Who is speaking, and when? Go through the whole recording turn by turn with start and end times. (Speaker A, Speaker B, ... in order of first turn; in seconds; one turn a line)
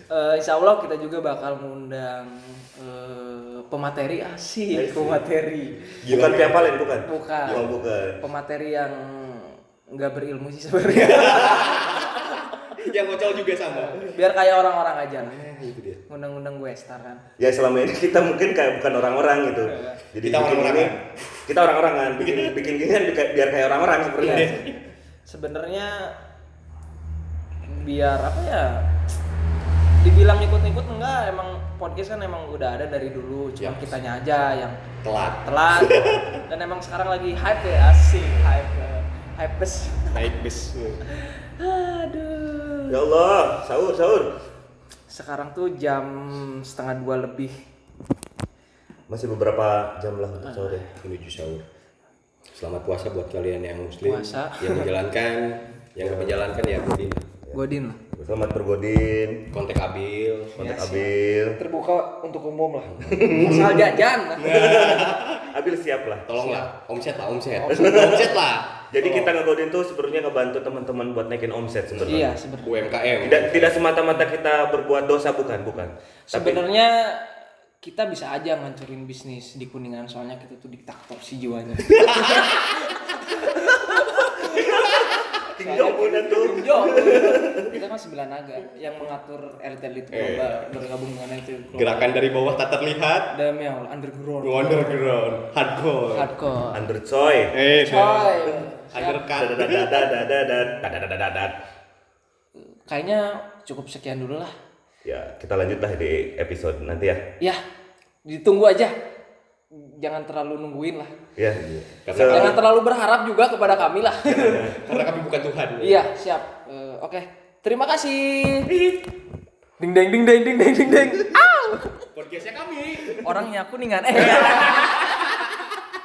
Speaker A: 0.1-6.0
Speaker B: 4.7-5.2
Speaker C: 6.0-6.9
Speaker B: 6.0-8.2
Speaker A: 7.0-12.9
Speaker C: 7.5-7.8
Speaker C: 10.9-14.2
Speaker A: 13.7-15.5
Speaker C: 15.2-16.0
Speaker A: 16.1-17.3
Speaker B: 17.4-21.0
Speaker A: 19.6-20.0
Speaker C: 20.2-21.4
Speaker B: 21.5-24.6
Speaker C: 22.2-22.7
Speaker A: 24.2-24.7
Speaker C: 24.2-24.8
Speaker A: 25.3-26.2
Speaker A: 27.6-28.9
Speaker A: 30.0-34.8
Speaker C: 33.6-34.0
Speaker C: 35.0-36.4
Speaker A: 35.4-40.2
Speaker C: 40.1-41.0
Speaker A: 41.1-43.0
Speaker B: 42.9-44.3
Speaker A: 45.1-47.5
Speaker B: 49.1-50.9
Speaker A: 50.4-50.9
Speaker C: 51.0-51.6
Speaker C: 52.5-57.2
Speaker A: 54.0-54.9
Speaker B: 56.0-56.5
Speaker A: 57.5-58.0
Speaker B: 58.2-59.4
Speaker C: 59.5-60.5
Speaker B: 60.6-61.6
Speaker A: 60.6-64.7
Speaker C: 63.1-65.5
Speaker B: 64.4-66.3
Speaker C: 66.3-69.3
Speaker A: 66.4-66.7
Speaker A: 67.5-68.2
Speaker B: 67.7-68.4
Speaker B: 68.9-72.3
Speaker C: 72.0-73.8
Speaker A: 72.1-72.9
Speaker B: 73.2-76.6
Speaker A: 76.3-77.3
Speaker A: 77.8-92.3
Speaker C: 82.1-82.5
Speaker B: 84.5-87.7
Speaker C: 90.1-90.8
Speaker C: 91.7-93.3
Speaker A: 93.3-95.2
Speaker C: 94.4-96.3
Speaker A: 96.1-96.8
Speaker B: 96.8-97.5
Speaker C: 97.5-100.1
Speaker A: 97.8-99.3
Speaker B: 99.3-101.6
Speaker A: 100.5-100.9
Speaker A: 102.6-104.5
Speaker B: 105.0-107.2
Speaker A: 108.2-109.0
Speaker A: 109.7-111.1
Speaker B: 111.4-112.6
Speaker C: 111.5-112.6
Speaker A: 112.2-115.0
Speaker B: 114.2-114.8
Speaker C: 114.5-116.1
Speaker A: 115.8-118.8
Speaker A: 119.8-122.0
Speaker C: 122.1-123.3
Speaker A: 123.2-125.3
Speaker C: 124.3-125.6